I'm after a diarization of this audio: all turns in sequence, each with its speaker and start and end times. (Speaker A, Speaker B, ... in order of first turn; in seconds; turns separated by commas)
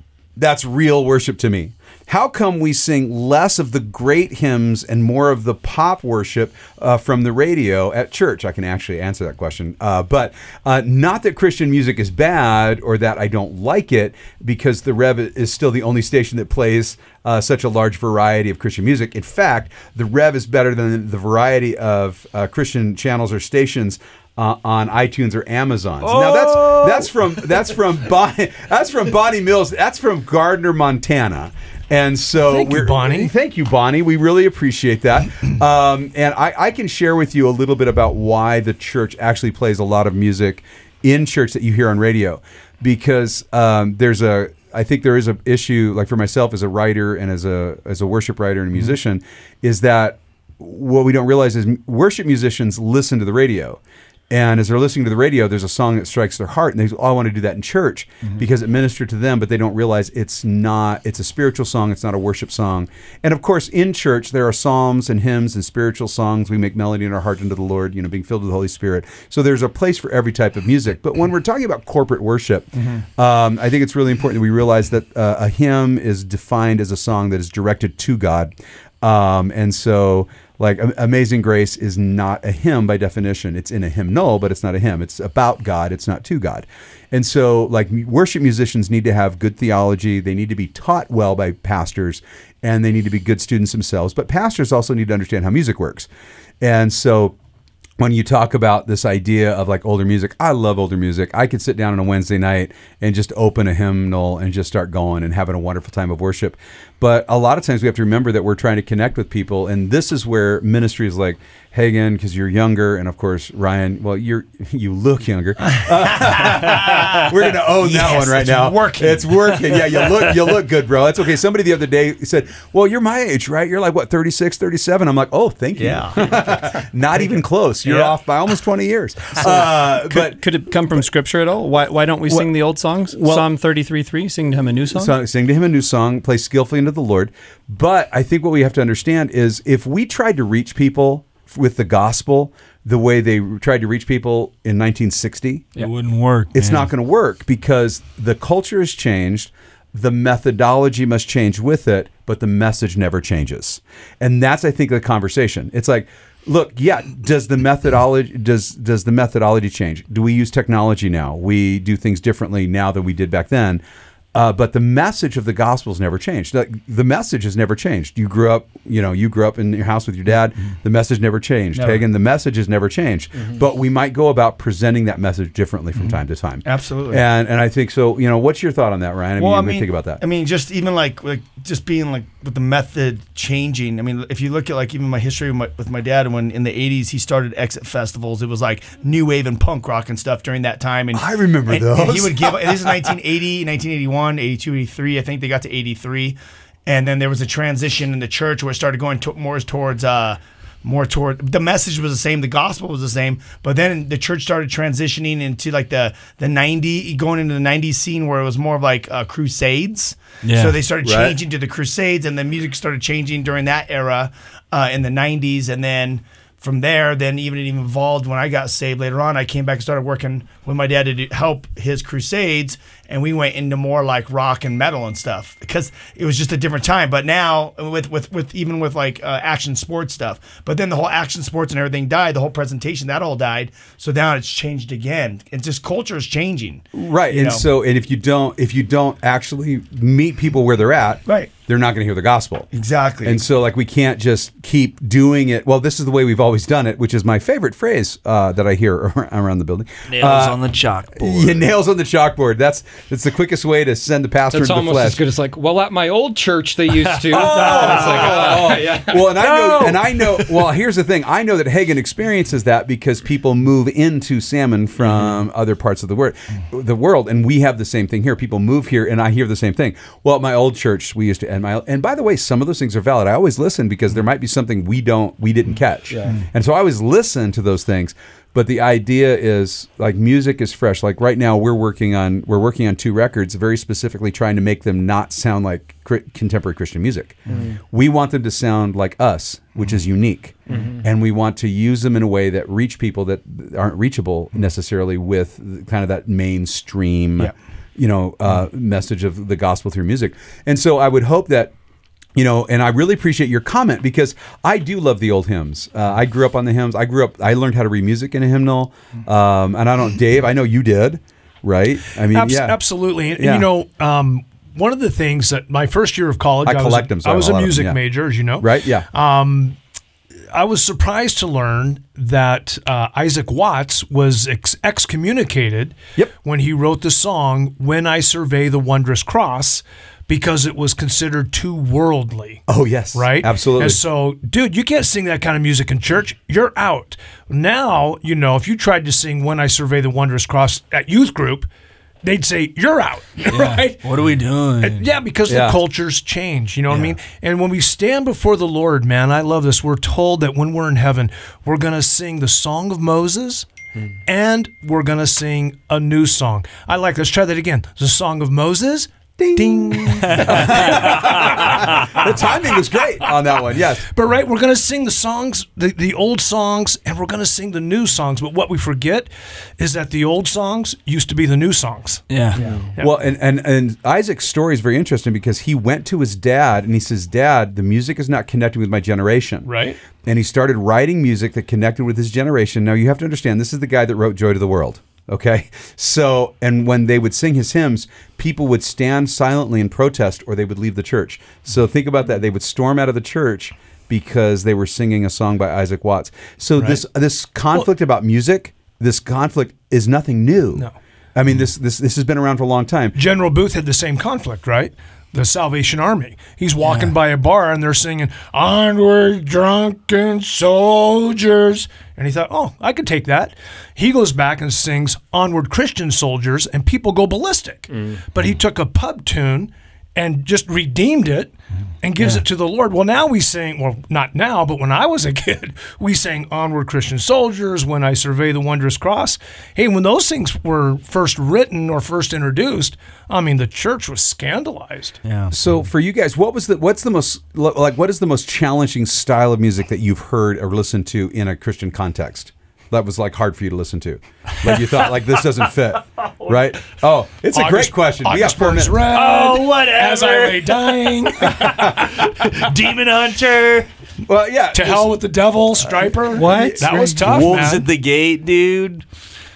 Speaker A: 0.4-53.8, Speaker B: 26.0-27.1, Speaker C: 32.5-33.3, Speaker A: 54.3-96.1, Speaker A: 96.6-97.3, Speaker A: 98.0-131.1, Speaker D: 115.7-117.2, Speaker D: 117.8-120.2, Speaker D: 125.8-126.2, Speaker D: 127.2-128.2, Speaker E: 130.1-135.1, Speaker A: 132.3-132.5, Speaker A: 133.1-133.5, Speaker A: 134.9-145.8, Speaker B: 145.8-146.9, Speaker A: 146.5-163.8, Speaker A: 164.3-180.2, Speaker D: 171.8-172.0, Speaker D: 176.6-177.2, Speaker D: 179.4-237.7, Speaker A: 191.1-192.8, Speaker B: 210.4-210.8, Speaker A: 211.0-211.4, Speaker A: 236.9-242.7, Speaker D: 242.7-243.4, Speaker A: 243.2-255.2, Speaker B: 250.1-251.7, Speaker F: 254.5-259.5, Speaker A: 257.3-301.7, Speaker B: 257.5-258.3, Speaker B: 259.5-260.6, Speaker F: 276.1-276.4, Speaker A: 302.4-313.7, Speaker C: 312.3-319.8, Speaker A: 316.6-319.1, Speaker C: 320.5-341.7, Speaker A: 332.7-334.0, Speaker C: 342.2-344.1, Speaker B: 343.5-345.1, Speaker C: 344.8-353.7, Speaker A: 345.5-345.8, Speaker B: 346.9-347.1, Speaker C: 354.3-361.8, Speaker A: 359.4-364.1, Speaker C: 364.1-372.2, Speaker B: 372.3-372.6, Speaker A: 372.6-403.1, Speaker C: 379.6-380.0, Speaker C: 403.1-435.2, Speaker B: 406.8-407.2, Speaker F: 417.9-418.2, Speaker B: 435.2-435.6, Speaker A: 435.5-449.1, Speaker C: 447.5-452.2, Speaker B: 449.1-453.9, Speaker A: 454.2-455.1, Speaker C: 454.7-457.9, Speaker A: 456.3-457.3, Speaker E: 456.4-457.1, Speaker B: 457.2-459.0